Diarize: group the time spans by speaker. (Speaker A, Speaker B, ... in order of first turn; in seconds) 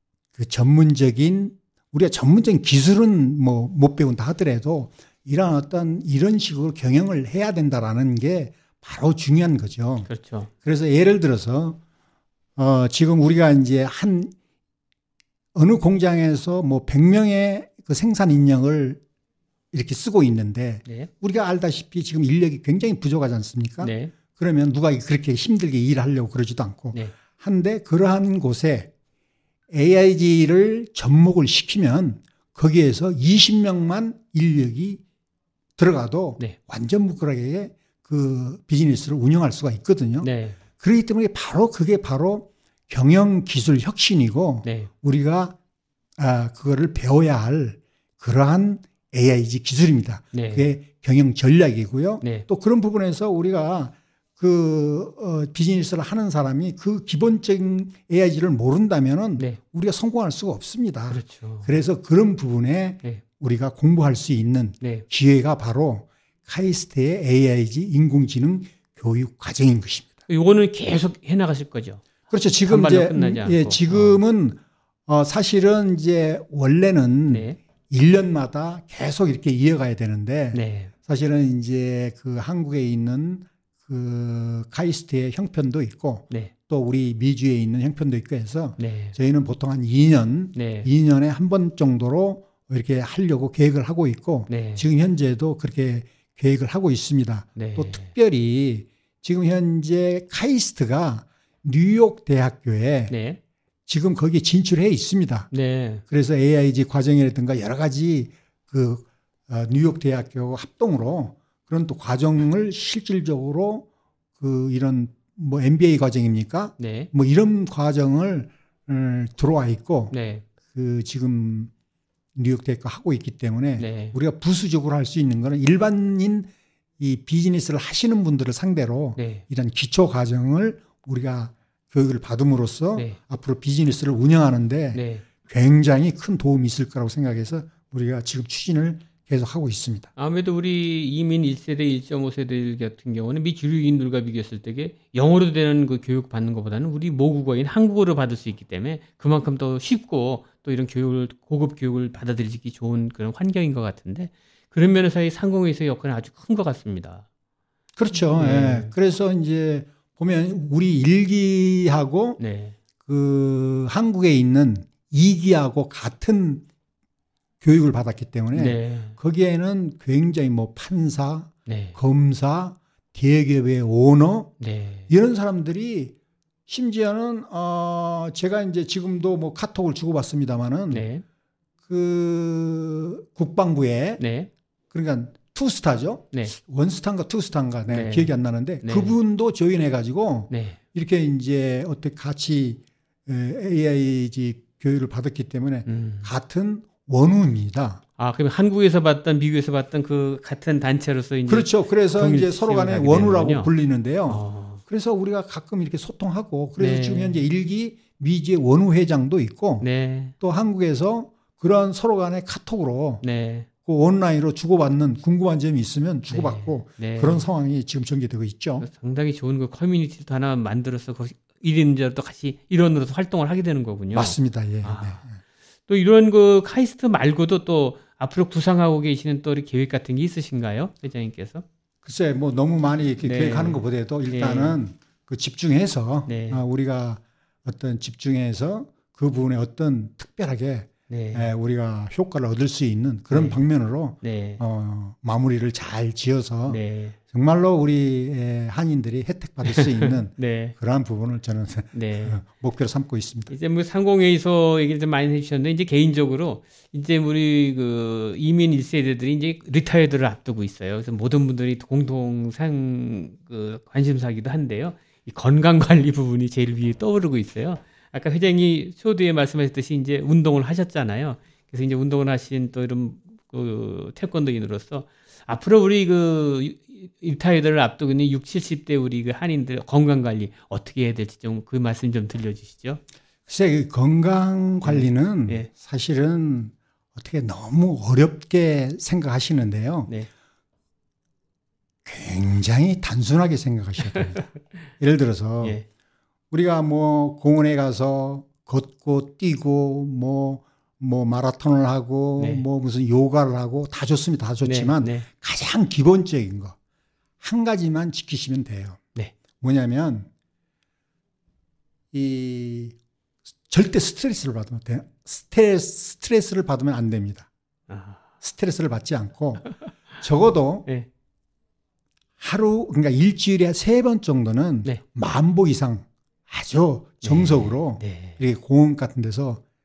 Speaker A: 0.3-10.1, 10.6-11.8, 12.6-14.3, 15.6-19.0, 19.7-28.9, 29.7-35.0, 35.8-45.5, 46.2-70.2, 72.3-103.1, 103.9-105.5, 106.1-113.9, 114.4-120.2, 120.7-121.7, 122.3-140.1, 158.0-162.4, 163.0-166.7, 167.6-174.5, 175.1-176.2, 176.7-181.1, 181.9-184.2, 184.9-198.0, 201.5-209.9, 210.4-213.2, 213.8-218.9, 224.1-225.4, 232.0-253.5, 283.5-290.1, 292.1-294.5, 295.0-295.8, 296.5-306.8, 307.4-309.0, 309.6-310.3, 312.1-313.0, 313.7-317.5, 318.4-319.7, 320.2-320.9, 322.4-329.6
Speaker B: 10.1-10.5, 23.8-24.1, 40.2-40.6, 44.6-44.9, 50.3-50.7, 52.2-52.5, 61.1-61.7, 64.8-65.1, 70.3-72.0, 72.7-74.2, 77.3-77.6, 80.5-80.9, 88.8-89.2, 90.5-90.9, 94.5-94.8, 97.6-98.1, 103.1-103.4, 105.5-106.0, 116.8-117.1, 120.1-120.5, 123.8-124.2, 129.2-129.4, 134.9-135.3, 140.2-157.2, 158.1-158.9, 162.4-162.8, 168.5-169.2, 171.7-172.0, 174.6-175.1, 180.9-181.2, 184.2-184.5, 187.9-189.2, 190.5-190.8, 195.9-196.3, 198.2-203.7, 204.3-204.8, 206.8-207.4, 209.8-210.3, 213.2-213.7, 216.3-217.4, 218.8-225.3, 225.9-231.6, 233.2-234.8, 236.3-236.6, 241.1-241.5, 243.3-243.6, 244.2-244.6, 246.7-247.2, 249.7-250.8, 251.9-252.4, 253.5-283.0, 284.8-285.7, 302.4-302.6, 304.6-305.3, 317.9-318.2, 327.2-328.4